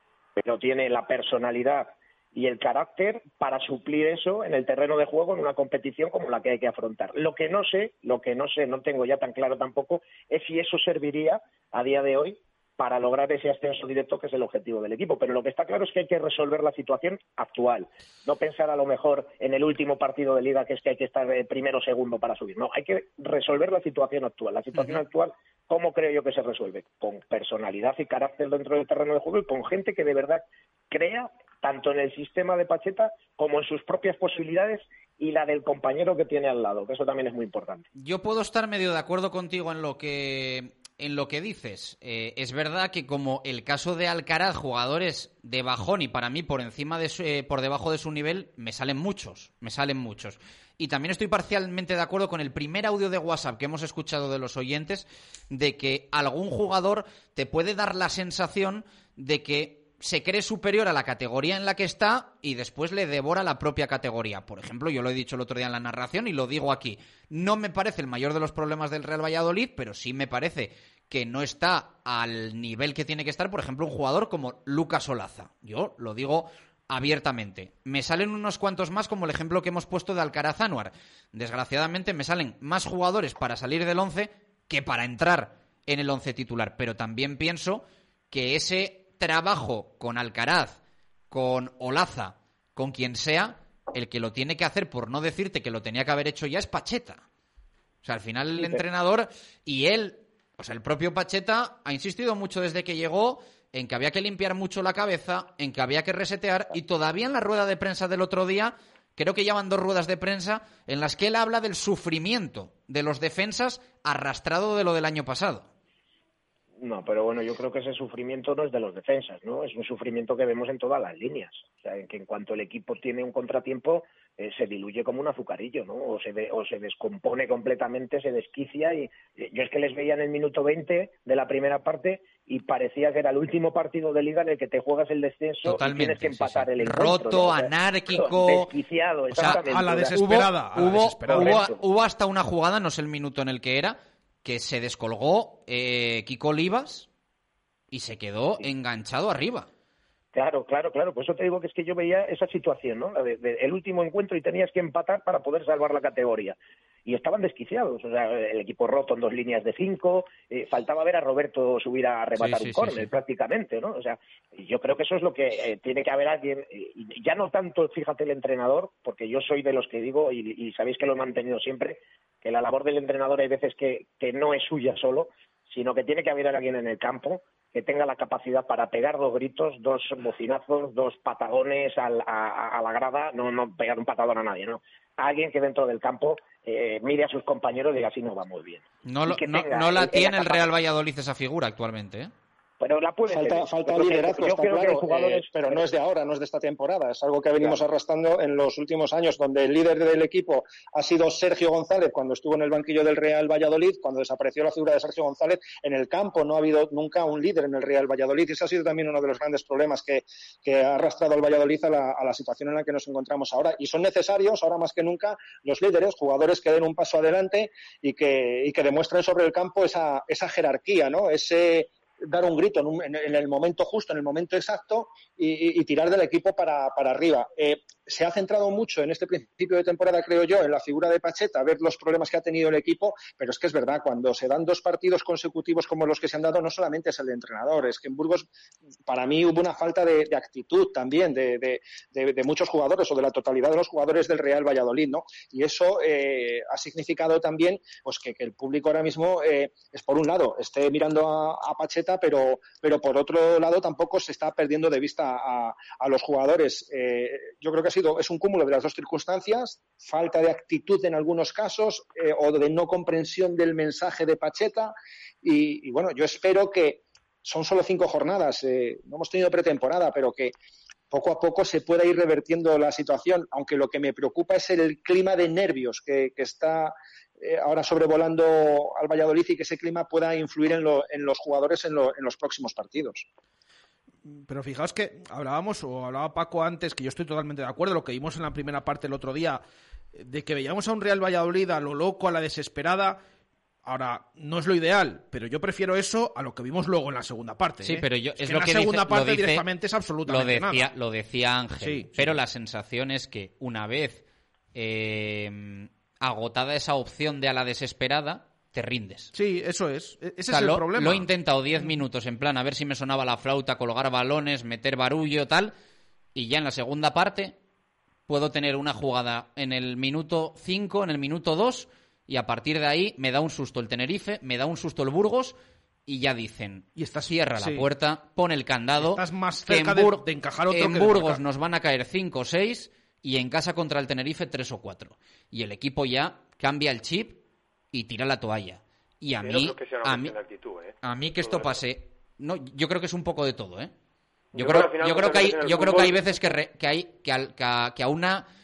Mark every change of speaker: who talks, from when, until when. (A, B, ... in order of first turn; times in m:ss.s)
0:00.4-0:37.8 A
0:24.8-0:25.0 B
0:38.0-1:30.8 B
1:31.3-1:37.2 B
1:38.0-1:55.7 B
1:38.6-1:38.8 A
1:56.8-2:20.2 A
2:15.6-2:18.7 B
2:19.3-2:27.1 B
2:19.5-2:21.7 C
2:21.3-2:21.7 A
2:27.9-2:29.7 B
2:30.4-3:10.7 A
2:42.4-2:43.1 B
3:09.1-3:12.3 B
3:12.8-3:15.8 A
3:13.3-3:58.5 D
3:59.1-4:30.5 D
4:31.1-4:43.2 D
4:44.3-4:49.6 C
4:50.1-4:53.2 C
4:53.8-5:00.9 C
4:57.8-4:59.6 B
5:00.3-5:04.2 B
5:01.8-5:02.4 C
5:04.8-5:09.3 B
5:09.3-5:11.3 C
5:10.5-5:15.7 B
5:16.4-5:17.6 B
5:18.3-5:37.4 B
5:27.0-5:27.9 C
5:29.0-5:31.4 C
5:37.9-5:40.3 B
5:39.4-5:41.8 E
5:41.0-5:43.9 B
5:44.6-5:46.2 E
5:44.6-5:48.5 B